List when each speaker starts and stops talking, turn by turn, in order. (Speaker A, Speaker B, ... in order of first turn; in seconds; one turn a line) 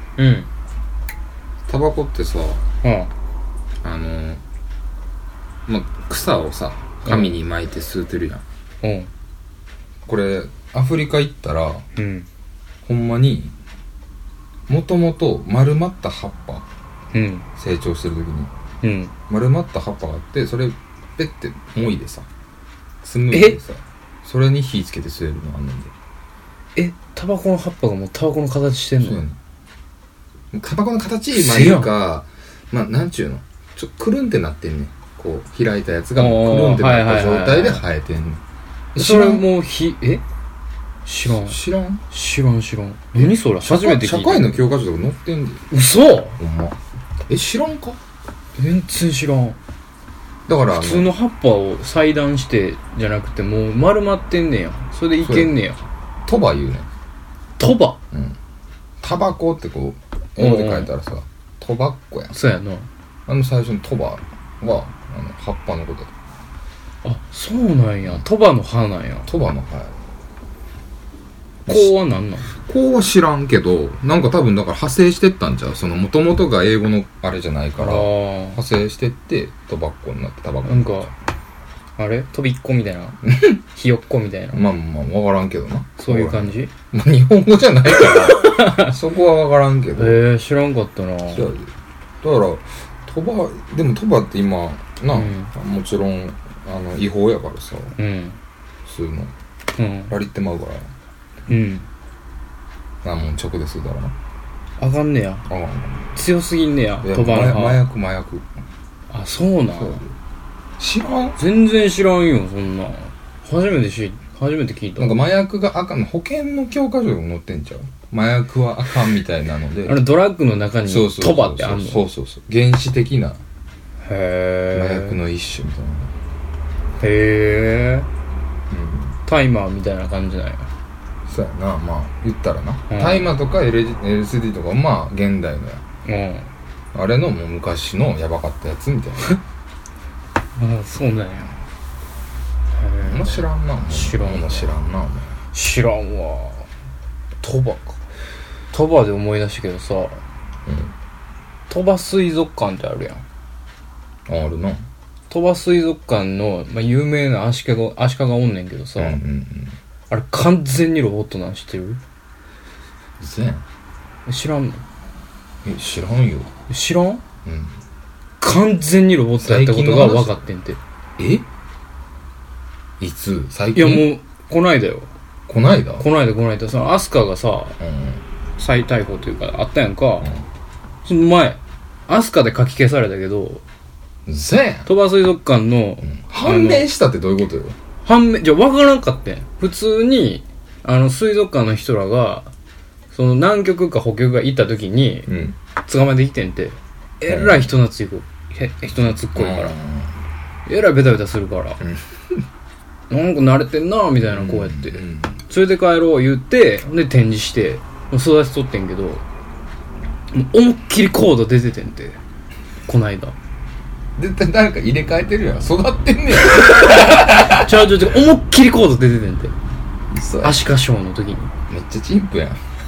Speaker A: 0.2-0.5
Speaker B: 1.7-2.6
Speaker A: 2.8-3.1
Speaker B: 3.8-4.4
Speaker B: 5.7-8.4
Speaker A: 7.0-7.3
Speaker A: 8.8-9.1
Speaker B: 10.1-11.8
Speaker A: 12.0-12.3
Speaker B: 12.8-13.5
Speaker B: 14.7-16.6
Speaker A: 17.1-17.5
Speaker B: 17.6-18.5
Speaker A: 18.8-19.1
Speaker B: 19.3-22.3
Speaker B: 23.0-25.9
Speaker A: 23.3-23.6
Speaker A: 26.8-29.2
Speaker B: 29.0-29.4
Speaker B: 30.5-38.4
Speaker A: 31.4-31.9
Speaker A: 36.1-37.8
Speaker A: 39.0-40.2
Speaker B: 39.0-39.5
Speaker A: 41.0-41.6
Speaker B: 41.4-42.0
Speaker A: 42.1-44.6
Speaker B: 43.1-45.6
Speaker A: 45.7-46.4
Speaker B: 46.4-46.8
Speaker B: 47.3-48.0
Speaker A: 48.6-49.6
Speaker B: 50.5-51.1
Speaker A: 50.7-55.8
Speaker B: 55.2-55.5
Speaker B: 56.2-56.9
Speaker A: 57.6-58.0
Speaker B: 58.1-58.4
Speaker B: 59.0-62.3
Speaker A: 60.4-60.9
Speaker A: 62.3-62.9
Speaker B: 63.3-66.1
Speaker A: 67.0-69.3
Speaker B: 69.3-69.9
Speaker B: 71.7-72.0
Speaker A: 71.7-72.5
Speaker B: 72.5-81.1
Speaker A: 77.8-78.6
Speaker A: 80.6-81.1
Speaker A: 82.0-84.6
Speaker B: 83.2-83.6
Speaker B: 84.5-90.2
Speaker A: 86.0-86.7
Speaker A: 88.0-89.0
Speaker A: 90.0-91.5
Speaker B: 91.3-91.7
Speaker B: 92.2-97.9
Speaker A: 95.1-95.5
Speaker A: 98.0-98.4
Speaker B: 98.9-99.3
Speaker A: 99.8-100.2
Speaker B: 100.1-100.9
Speaker A: 101.5-101.9
Speaker B: 103.0-104.2
Speaker A: 104.8-105.4
Speaker B: 105.5-106.1
Speaker A: 106.2-107.8
Speaker B: 107.0-108.5
Speaker A: 109.1-110.0
Speaker B: 109.7-110.1
Speaker B: 110.8-111.4
Speaker A: 111.4-115.2
Speaker B: 115.0-120.0
Speaker A: 119.9-122.0
Speaker B: 120.8-123.4
Speaker A: 124.0-125.2
Speaker B: 124.7-126.1
Speaker A: 127.0-128.1
Speaker B: 128.7-129.2
Speaker A: 129.2-130.7
Speaker B: 131.3-135.8
Speaker A: 132.9-133.3
Speaker A: 136.1-136.5
Speaker B: 136.9-139.4
Speaker A: 140.6-141.6
Speaker A: 142.7-144.7
Speaker B: 143.0-145.3
Speaker A: 145.5-146.7
Speaker A: 147.4-148.0
Speaker A: 148.7-150.2
Speaker B: 150.7-150.9
Speaker A: 151.7-153.2
Speaker B: 154.3-154.8
Speaker A: 155.3-159.2
Speaker B: 159.0-159.8
Speaker A: 160.1-162.0
Speaker B: 163.2-163.6
Speaker A: 164.2-164.8
Speaker B: 165.6-166.5
Speaker A: 166.7-167.2
Speaker B: 167.4-167.8
Speaker A: 168.4-170.8
Speaker B: 169.4-170.4
Speaker B: 171.2-171.4
Speaker B: 173.0-174.1
Speaker A: 173.7-175.1
Speaker B: 175.5-176.1
Speaker A: 176.0-177.8
Speaker B: 177.8-178.2
Speaker A: 178.6-180.3
Speaker A: 181.1-183.6
Speaker B: 184.3-184.9
Speaker A: 184.9-186.9
Speaker B: 186.1-187.8
Speaker A: 188.0-192.5
Speaker A: 193.1-195.3
Speaker B: 195.3-195.6
Speaker A: 195.9-199.8
Speaker B: 197.3-197.7
Speaker B: 199.3-200.1
Speaker A: 200.7-201.8
Speaker B: 201.8-202.4
Speaker A: 203.1-209.2
Speaker B: 204.3-205.4
Speaker A: 210.3-212.2
Speaker A: 212.9-213.3
Speaker B: 214.2-217.9
Speaker A: 217.2-219.5
Speaker B: 220.1-220.7
Speaker A: 220.4-221.5
Speaker B: 221.7-222.6